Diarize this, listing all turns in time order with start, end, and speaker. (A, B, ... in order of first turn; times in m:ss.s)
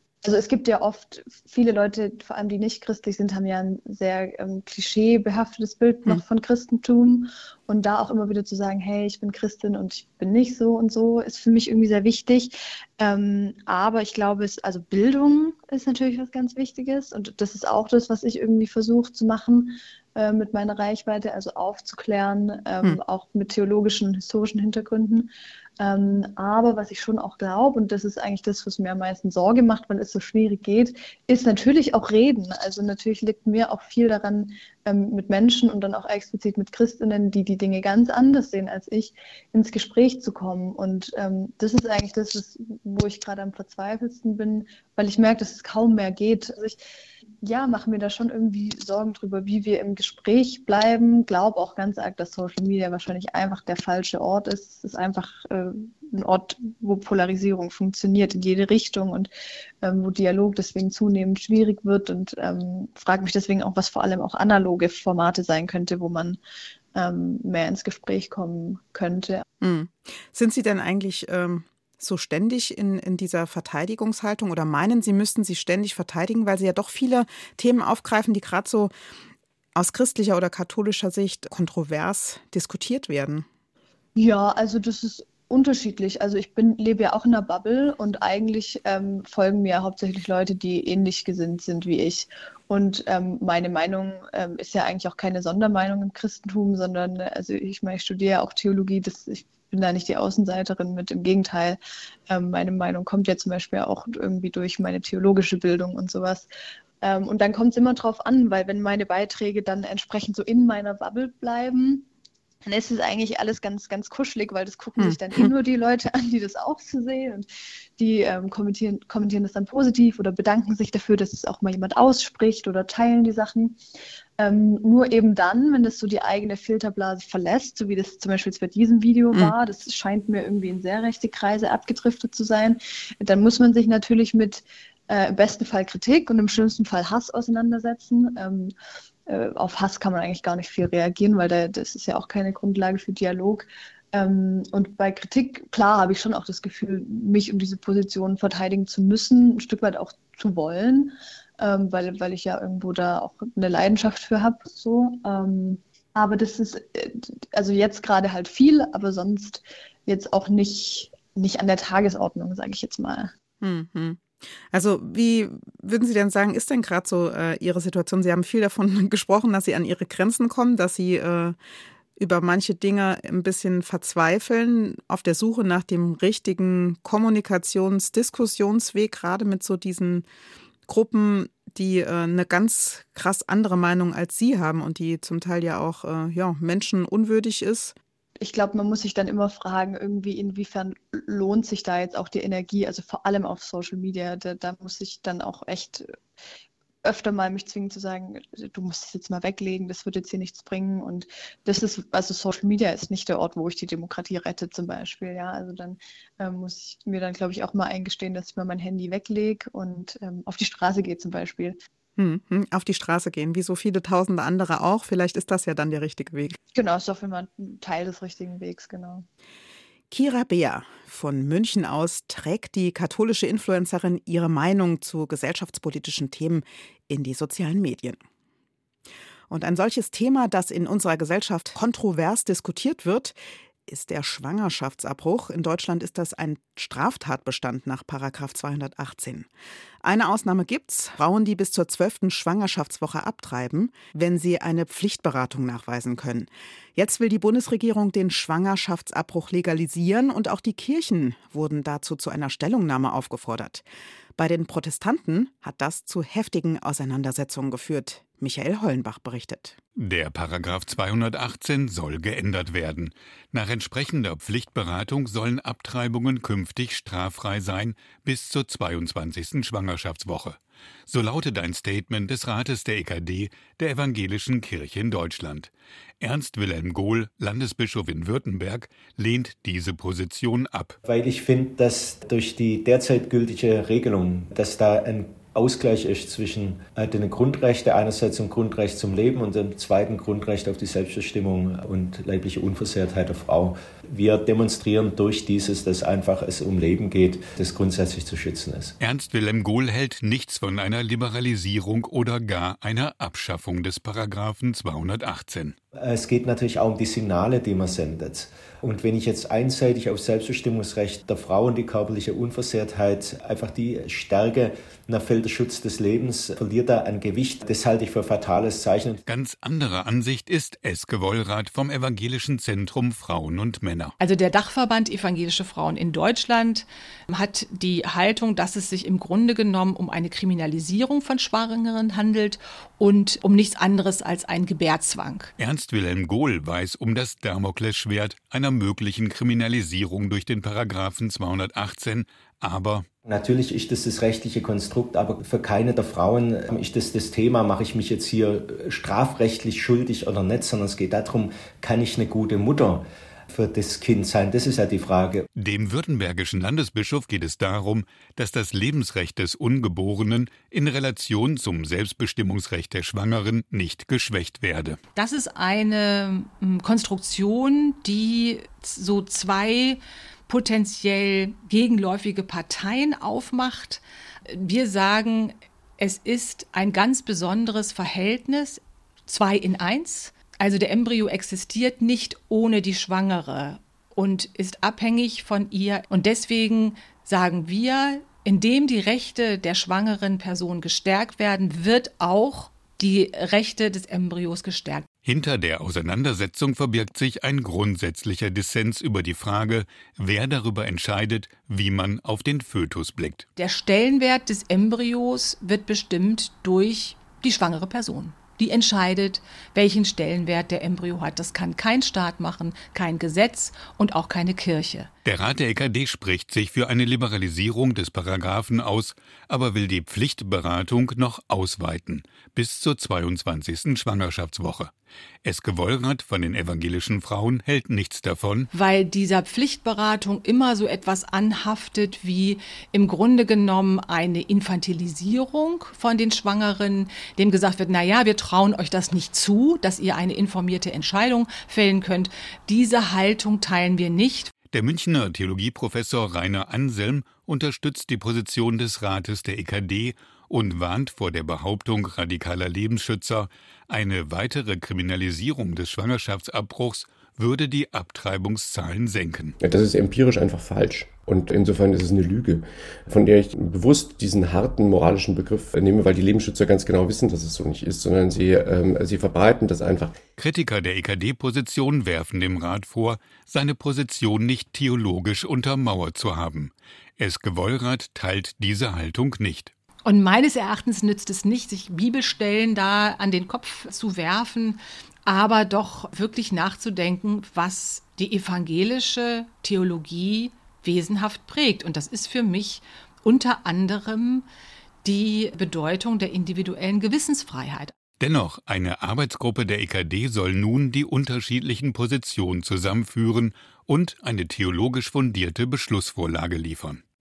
0:00.2-0:46.8 A
0:47.4-0:59.3 A
0:59.8-1:06.4 A
1:07.0-1:09.4 A
1:09.6-1:18.9 B
1:19.8-1:23.4 B
1:24.2-1:46.5 A
1:47.0-1:52.0 A
1:52.6-1:57.5 A
1:55.0-1:55.5 B
1:58.0-2:03.8 A
2:04.4-2:18.7 A
2:19.3-2:43.3 A
2:43.6-2:51.6 B
2:52.2-3:00.3 B
3:00.9-3:08.0 B
3:08.4-3:16.1 A
3:17.0-3:31.8 A
3:32.2-3:36.6 B
3:36.7-3:39.2 A
3:40.1-3:48.2 B
3:49.5-3:59.5 B
4:00.0-4:13.8 B
4:14.4-4:19.8 B
4:20.0-4:41.0 C
4:41.0-4:58.9 D
4:59.0-5:05.8 C
5:06.0-5:19.2 D
5:19.3-5:24.1 C
5:24.2-5:35.5 E
5:35.6-5:43.1 C
5:43.3-5:55.5 D
5:55.6-6:05.0 C
6:05.2-6:35.1 E
6:35.2-6:43.4 C
6:43.6-6:55.1 E
6:55.2-7:04.9 C
7:05.4-7:08.7 C
7:08.7-7:24.5 E
7:24.7-7:39.6 C
7:39.6-7:50.2 F
7:50.4-7:59.7 C
8:00.0-8:14.5 E
8:15.0-8:17.9 E
8:18.2-8:27.0 C